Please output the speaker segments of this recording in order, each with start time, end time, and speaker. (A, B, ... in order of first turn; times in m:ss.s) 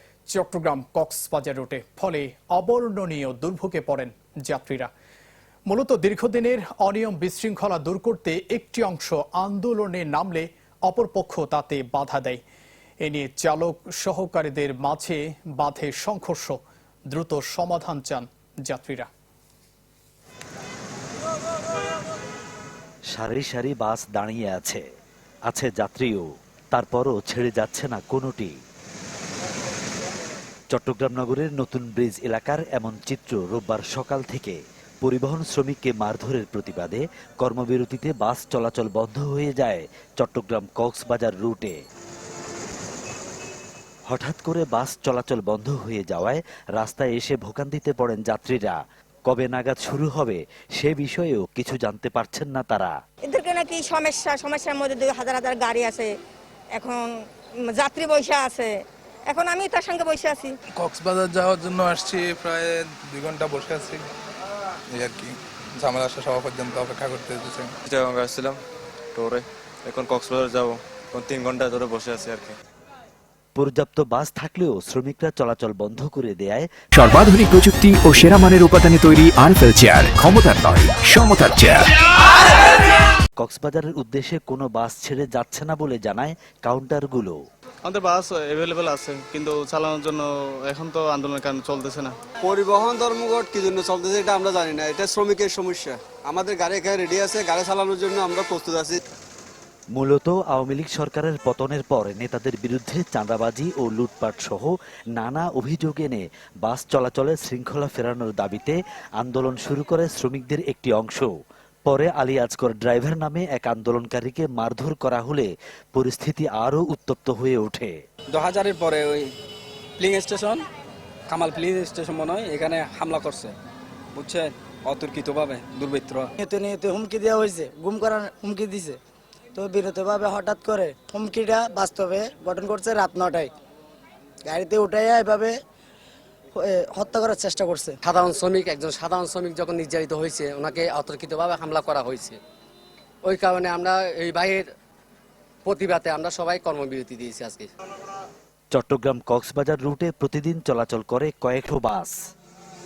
0:00.3-0:04.9 A
0:05.7-0:12.4 A
0:13.0-0:16.6 A
0:17.1-0:19.1 A
0:23.1-0:24.8 B
0:25.5-0:28.5 B
0:30.7-0:41.7 B
0:44.1-0:48.8 B
0:49.3-0:52.9 B
0:53.3-0:56.1 C
0:56.7-0:57.1 C
0:57.7-0:58.7 C
0:59.3-1:00.5 C
1:00.8-1:04.1 D
1:04.9-1:07.7 D
1:07.8-1:08.6 E
1:09.1-1:12.6 E
1:13.6-1:16.7 B
1:16.9-1:21.9 F
1:23.4-1:27.4 B
1:27.8-1:32.2 G
1:32.4-1:39.0 H
1:39.9-1:51.3 B
1:51.8-1:57.9 B
1:58.3-1:59.3 I
2:00.0-2:00.6 I
2:01.3-2:03.5 I
2:04.1-2:06.3 I
2:06.4-2:09.0 J
2:09.5-2:13.5 J
2:14.4-2:15.5 J
2:16.5-2:18.0 J
2:18.0-2:22.4 K
2:23.2-2:24.7 K
2:25.6-2:27.7 K
2:28.7-2:32.1 B